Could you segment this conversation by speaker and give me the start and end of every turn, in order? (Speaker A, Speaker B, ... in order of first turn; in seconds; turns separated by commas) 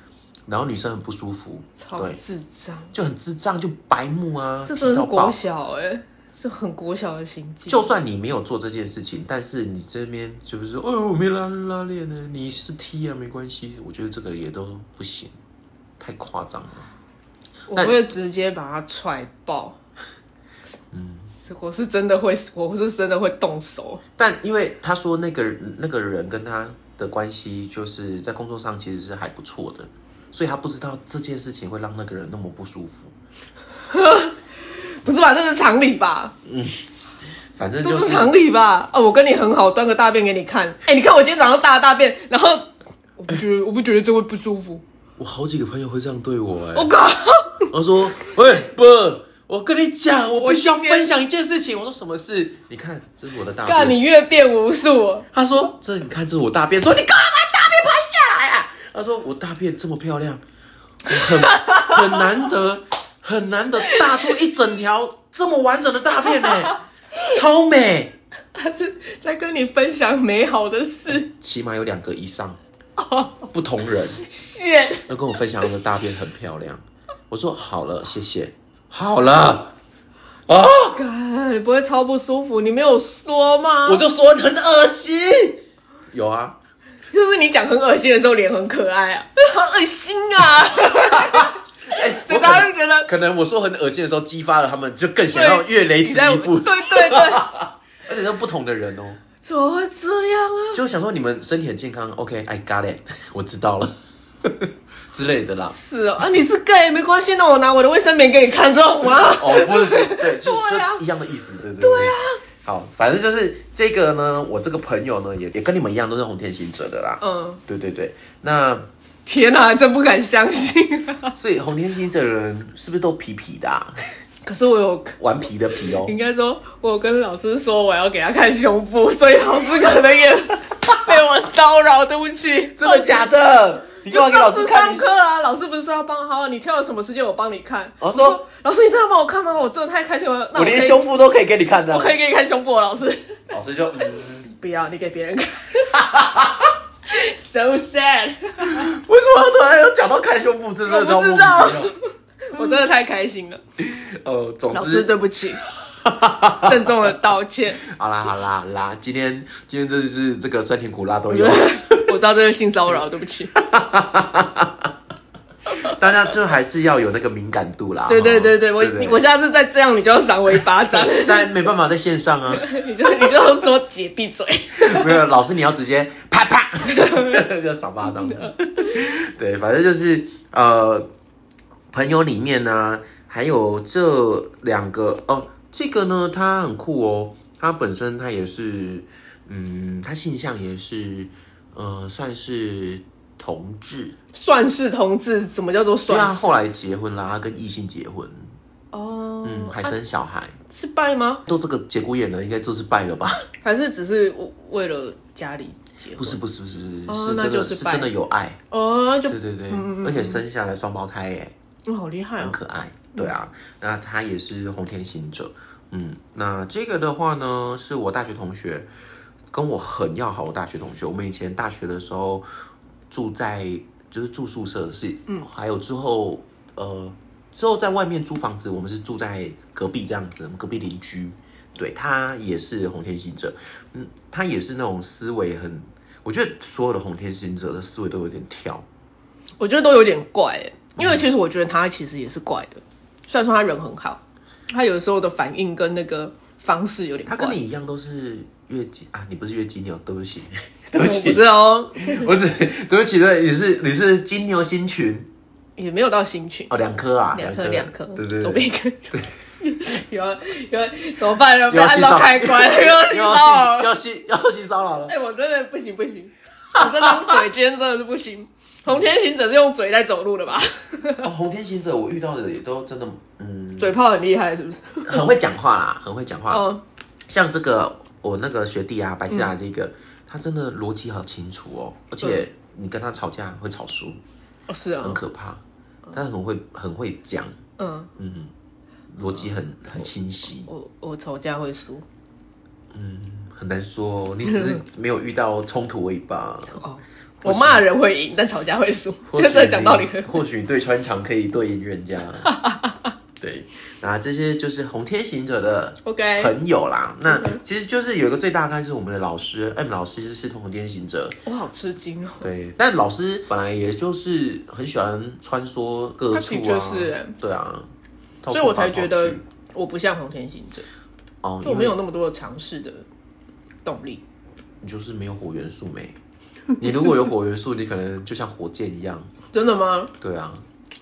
Speaker A: 0.5-2.2, Speaker B: 1.8-2.9, Speaker A: 2.9-5.4, Speaker B: 4.7-8.0, Speaker A: 7.7-15.3, Speaker A: 16.0-16.9, Speaker B: 17.7-19.8, Speaker A: 17.7-18.0, Speaker A: 20.9-21.3, Speaker B: 21.4-24.0, Speaker A: 24.2-33.1, Speaker B: 33.9-36.3, Speaker A: 36.4-36.8, Speaker A: 37.5-38.3, Speaker B: 37.8-44.8, Speaker A: 45.2-46.9, Speaker B: 46.7-47.7, Speaker A: 47.7-54.0, Speaker B: 50.4-51.1, Speaker B: 53.6-55.3, Speaker A: 55.3-60.4, Speaker A: 61.0-68.1, Speaker B: 61.2-62.0, Speaker B: 68.5-71.3, Speaker A: 71.3-72.6, Speaker B: 73.0-73.5, Speaker A: 73.5-74.2, Speaker B: 74.4-75.1, Speaker A: 75.1-79.7, Speaker A: 80.5-81.0, Speaker B: 80.8-84.0, Speaker A: 83.8-86.6, Speaker B: 87.1-93.1, Speaker A: 91.0-99.2, Speaker B: 95.3-97.5, Speaker B: 99.4-100.8, Speaker A: 100.7-105.8, Speaker B: 105.7-111.0, Speaker A: 109.2-118.8, Speaker B: 111.8-112.4, Speaker B: 117.2-117.6, Speaker B: 119.2-121.3, Speaker A: 121.3-123.9, Speaker B: 124.4-125.2, Speaker A: 125.2-126.1, Speaker B: 126.0-133.2, Speaker A: 132.8-135.1, Speaker B: 134.1-141.0, Speaker A: 138.0-138.4, Speaker A: 140.5-142.2, Speaker B: 141.9-143.4, Speaker A: 143.5-144.4, Speaker B: 144.2-146.1, Speaker A: 145.9-146.7, Speaker B: 147.1-148.9, Speaker A: 148.7-151.9, Speaker B: 150.8-153.6, Speaker A: 153.8-155.1, Speaker B: 154.7-155.6, Speaker A: 155.8-157.0, Speaker B: 156.6-157.8, Speaker A: 157.8-162.1, Speaker B: 161.3-163.5, Speaker A: 163.5-164.9, Speaker A: 165.8-169.2, Speaker B: 168.1-171.5, Speaker A: 170.9-173.2, Speaker B: 172.5-175.2, Speaker A: 174.8-181.1, Speaker B: 176.9-177.4, Speaker B: 178.2-179.0, Speaker A: 181.9-194.2, Speaker B: 194.3-196.6, Speaker A: 196.1-198.5, Speaker B: 198.9-199.9, Speaker A: 199.4-200.6, Speaker B: 200.7-201.4, Speaker A: 201.5-203.4, Speaker B: 203.6-206.4, Speaker A: 206.2-208.6, Speaker B: 207.1-208.1, Speaker B: 208.7-210.4, Speaker A: 209.3-211.5, Speaker B: 211.8-212.6, Speaker A: 212.4-218.9, Speaker A: 219.5-222.4, Speaker A: 223.1-238.8, Speaker B: 239.6-247.6, Speaker A: 241.0-241.2, Speaker A: 247.3-251.4, Speaker B: 250.9-252.3, Speaker A: 252.0-255.3, Speaker B: 255.8-256.7, Speaker A: 256.7-259.3, Speaker B: 257.3-263.9, Speaker A: 261.7-265.1, Speaker B: 265.1-271.3, Speaker A: 266.7-267.4, Speaker A: 271.2-273.9, Speaker B: 273.8-275.3, Speaker A: 275.1-276.6, Speaker B: 276.5-276.8, Speaker A: 277.3-284.2, Speaker B: 284.7-285.2, Speaker A: 285.0-285.6, Speaker A: 286.1-287.5, Speaker B: 287.8-288.1, Speaker A: 288.2-288.5, Speaker A: 289.1-290.7, Speaker B: 290.6-292.0, Speaker A: 292.9-296.8, Speaker B: 294.5-294.8, Speaker B: 296.7-300.4, Speaker A: 297.4-297.8, Speaker A: 299.3-302.5, Speaker B: 302.4-303.1, Speaker A: 303.4-311.4, Speaker B: 306.0-306.5, Speaker B: 307.3-307.6, Speaker B: 311.4-312.5, Speaker A: 312.4-317.9, Speaker B: 316.3-317.4, Speaker A: 318.4-319.4, Speaker B: 318.5-320.9, Speaker A: 321.4-322.0, Speaker B: 321.6-323.1, Speaker B: 323.8-324.2, Speaker A: 324.8-326.1, Speaker A: 326.8-329.3, Speaker B: 329.5-330.1, Speaker A: 330.2-330.6